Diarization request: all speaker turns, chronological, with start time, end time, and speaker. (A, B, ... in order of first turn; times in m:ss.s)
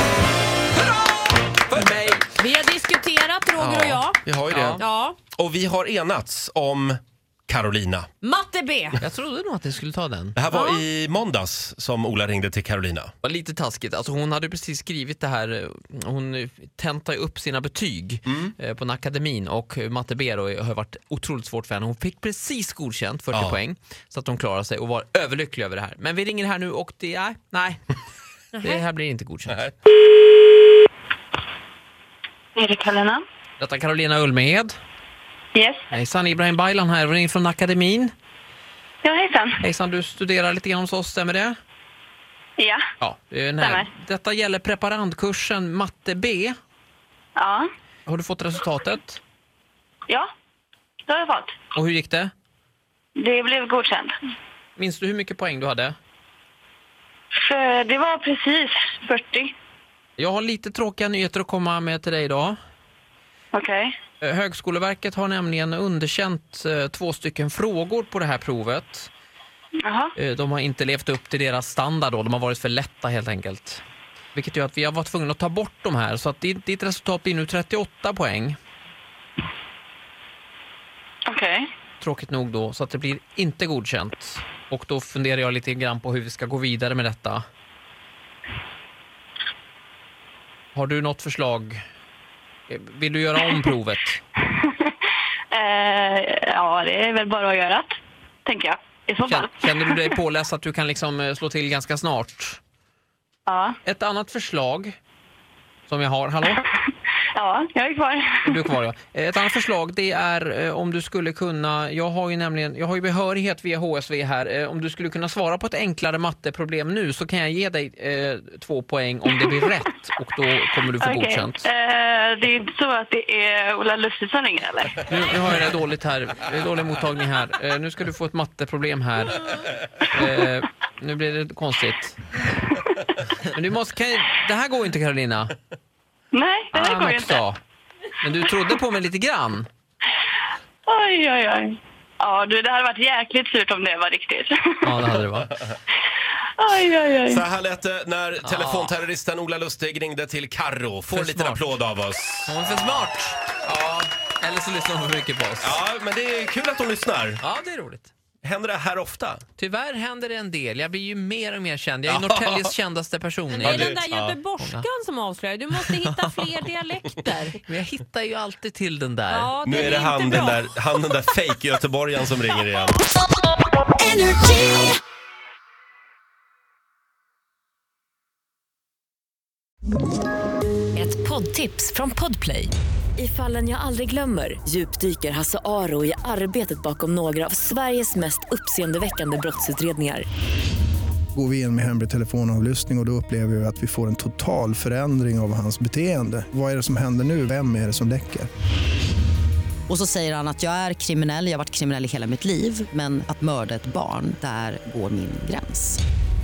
0:00.7-0:02.3 A
0:02.3-0:04.2 B
0:03.6-0:04.8 C
0:04.5-0:04.8 A
0:04.8-0:05.2 B
0:05.3-0:08.1 C
0:08.2-0:09.0 B
0:09.0-0:10.4 A
0:10.4-0:13.1 C
0:10.5-0:10.8 B
0:13.2-0:27.8 A
0:28.6-0:29.7 A
0:32.6-0:33.2 D
0:33.6-0:34.7 A
0:35.5-0:35.8 D
0:35.9-0:38.1 A
0:39.0-0:39.6 D
0:39.6-0:41.5 A
0:43.0-0:46.6 A
0:43.6-0:43.9 D
0:47.4-0:47.6 D
0:48.1-0:49.2 A
0:51.1-0:51.5 D
0:51.7-0:52.3 A
0:53.2-0:54.1 D
0:54.8-0:56.0 A
0:57.4-0:59.5 D
1:00.2-1:02.6 A
1:03.5-1:03.9 D
1:04.2-1:09.1 A
1:09.8-1:10.1 D
1:10.2-1:13.8 A
1:14.3-1:18.6 A
1:21.2-1:21.6 D
1:22.0-1:27.4 A
1:30.7-1:31.8 A
1:32.7-1:34.2 A
1:34.6-1:34.9 D
1:35.5-1:37.9 D
1:38.4-1:40.0 D
1:39.3-1:42.6 A
1:43.5-1:43.8 D
1:43.8-1:44.9 A
1:45.9-1:46.6 A
1:47.3-1:48.6 D
1:48.4-2:01.6 A
2:01.0-2:04.9 D
2:05.0-2:12.2 A
2:13.5-2:15.5 A
2:16.3-2:17.4 D
2:16.7-2:17.6 A
2:18.2-2:19.7 A
2:20.9-2:25.0 D
2:24.8-2:25.5 A
2:26.6-2:27.4 D
2:27.3-2:32.5 C
2:28.4-2:28.9 A
2:31.1-2:31.7 A
2:32.4-2:35.8 A
2:35.6-2:37.4 C
2:37.4-2:38.1 A
2:38.4-2:39.4 C
2:39.6-2:44.0 A
2:42.1-2:42.6 C
2:43.5-2:47.6 B
2:43.6-2:44.4 C
2:44.6-2:44.9 A
2:45.7-2:46.6 A
2:47.6-2:49.8 A
2:49.3-2:50.6 B
2:49.6-2:53.0 C
2:54.0-2:54.9 B
3:01.0-3:10.2 E
3:11.4-3:18.5 F
3:19.9-3:26.0 G